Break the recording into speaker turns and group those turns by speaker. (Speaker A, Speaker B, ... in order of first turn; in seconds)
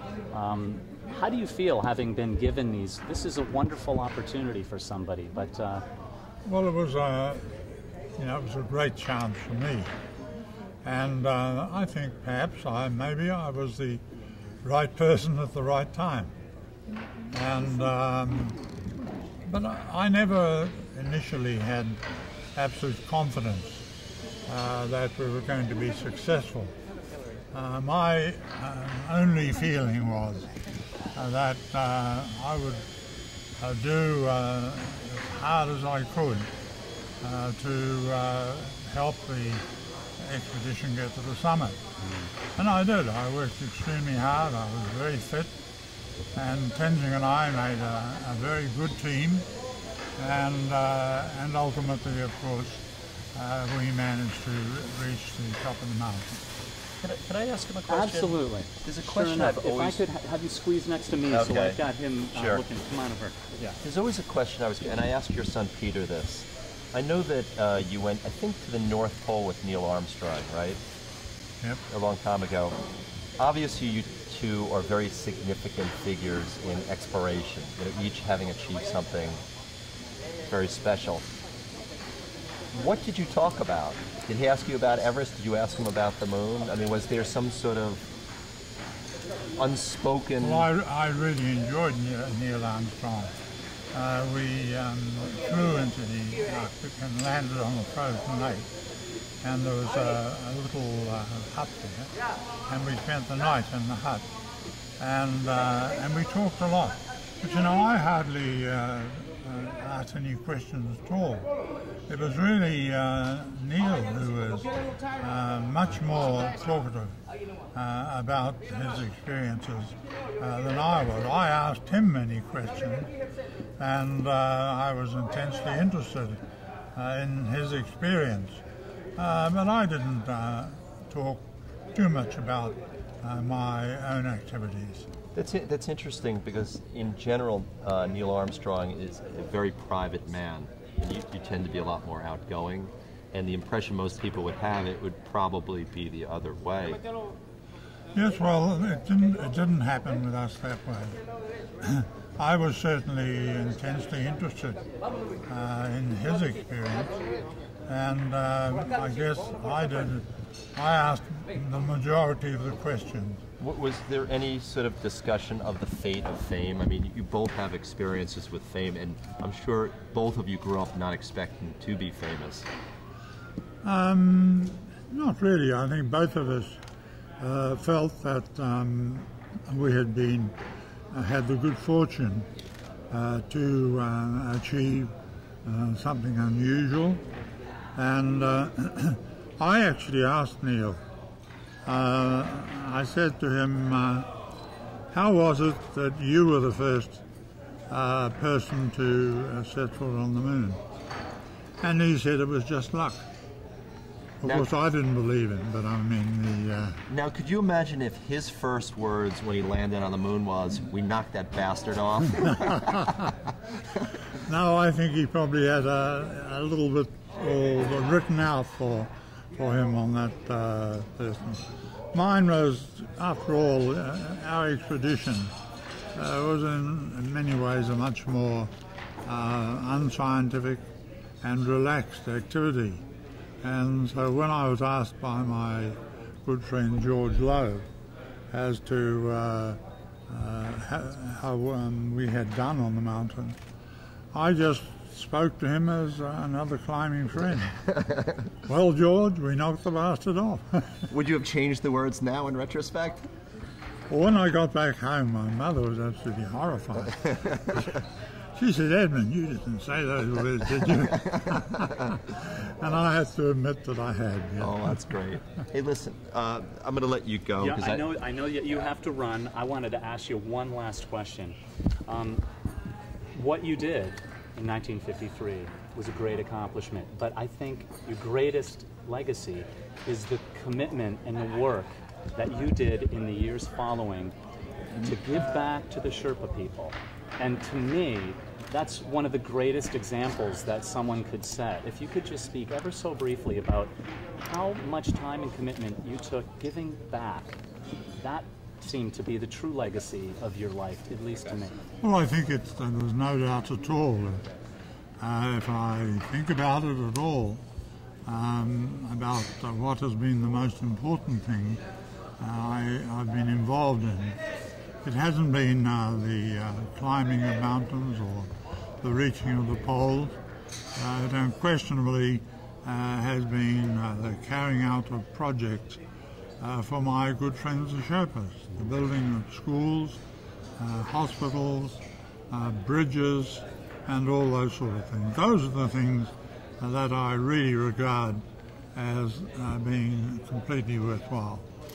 Speaker A: 0.3-5.8, 42.0-42.3, 57.9-63.8, 267.6-272.4, 273.3-284.4, 285.0-297.6, 298.2-301.8
Speaker B: 6.5-7.5, 8.2-9.9, 10.8-14.0, 14.6-16.3, 17.3-18.6, 19.4-22.0, 22.6-23.8, 24.5-26.7, 27.5-30.5, 31.1-32.8, 33.6-36.5, 37.2-39.6, 40.2-41.8, 42.6-45.5, 46.4-49.5, 50.2-56.4, 90.4-93.3, 93.9-98.7, 99.4-102.1, 102.7-104.3, 105.0-111.5, 112.1-117.2, 117.7-123.1, 123.8-126.4, 127.0-128.6, 129.2-135.1, 148.2-151.2, 151.8-154.8, 155.5-157.1, 157.9-163.4, 173.8-176.8, 177.4-180.6, 181.1-182.5, 183.1-185.1, 185.7-187.2, 187.9-191.0, 191.8-194.3, 195.1-197.2, 197.9-200.8, 201.8-203.2, 204.4-207.0, 214.4-225.5, 226.1-228.7, 229.2-230.8, 231.4-233.0, 233.6-237.9, 238.5-243.6, 244.3-247.8, 248.7-251.1, 254.1-265.0, 302.0-304.4, 305.2-307.6, 308.3-311.8, 312.4-314.4, 315.0-320.4, 320.9-326.0, 326.6-330.2, 330.8-338.4, 338.9-341.6
Speaker C: 57.0-60.0, 61.3-61.8, 62.3-62.7, 63.8-70.8, 71.9-72.8, 73.4-79.4, 80.5-81.2, 82.7-88.1, 89.6-90.7, 135.3-147.0, 163.6-172.7, 207.1-213.3, 251.1-253.3, 261.1-262.1, 264.6-268.1